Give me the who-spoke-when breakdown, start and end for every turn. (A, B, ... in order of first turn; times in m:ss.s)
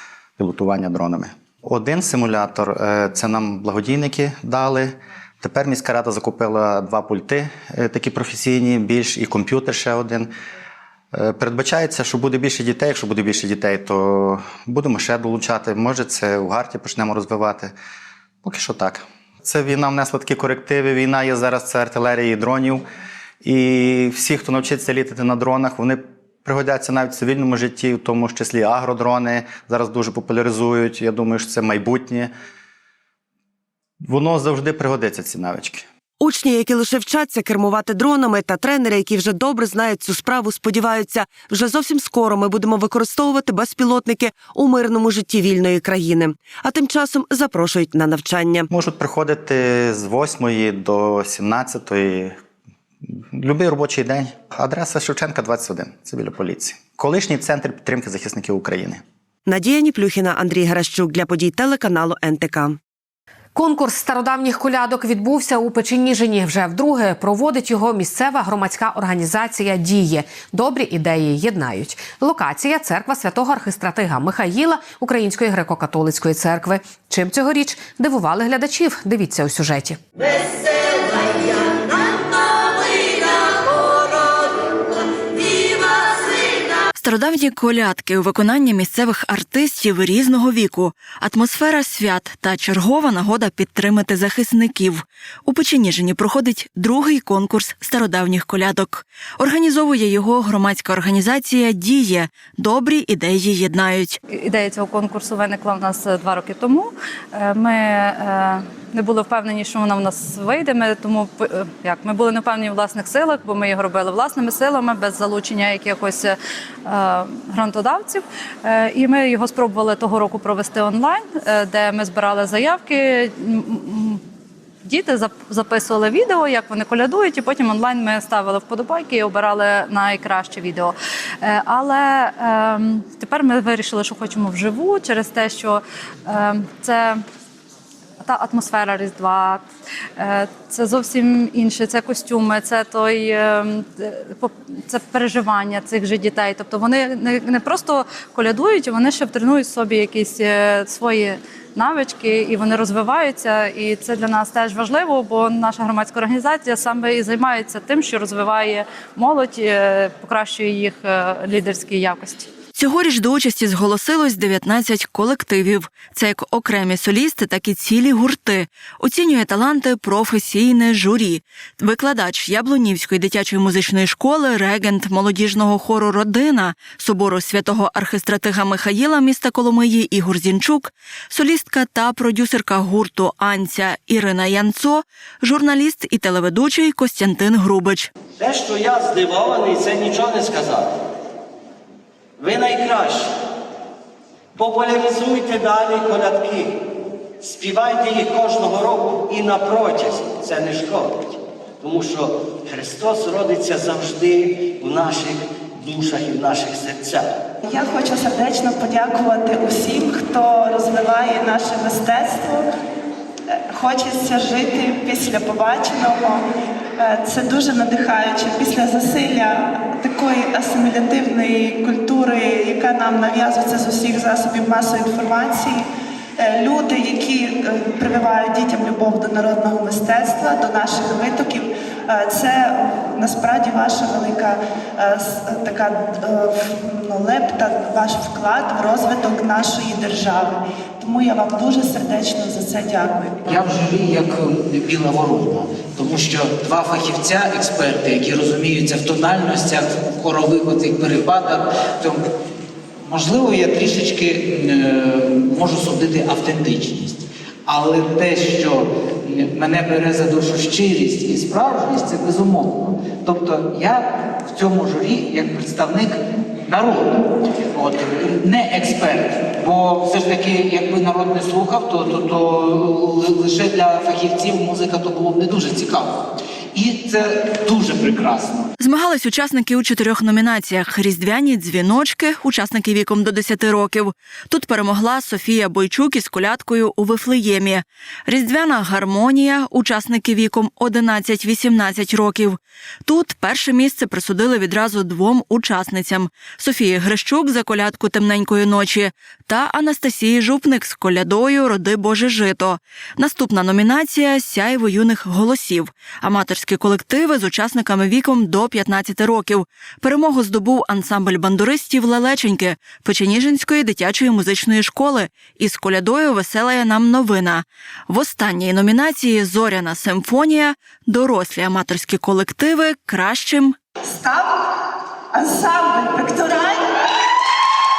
0:00.4-0:10.3 A
0:11.1-0:17.7 A
0:18.4-0:22.8 A
0:23.4-0:32.3 A
0:34.0-0:35.8 A
0:36.2-0:48.7 B
0:48.7-0:52.4 A
0:53.0-0:59.0 A
0:59.4-1:02.8 B
1:03.5-1:20.0 C
1:27.0-1:44.2 D
1:44.3-2:04.2 E
2:04.8-2:17.2 E
2:18.2-2:19.6 E
2:20.2-2:42.5 E
2:42.8-3:08.1 D
3:08.4-3:11.0 F
3:12.4-3:13.3 F
3:14.6-3:16.8 F
3:17.4-3:27.3 F
3:27.6-3:32.7 G
3:33.6-3:36.4 G
3:37.0-4:03.4 G
4:03.5-4:12.2 H
4:13.0-4:26.2 H
4:26.7-4:27.2 H
4:27.8-4:36.2 H
4:36.7-4:38.6 H
4:38.8-5:23.8 D
5:24.0-5:24.8 G
5:25.3-5:27.0 G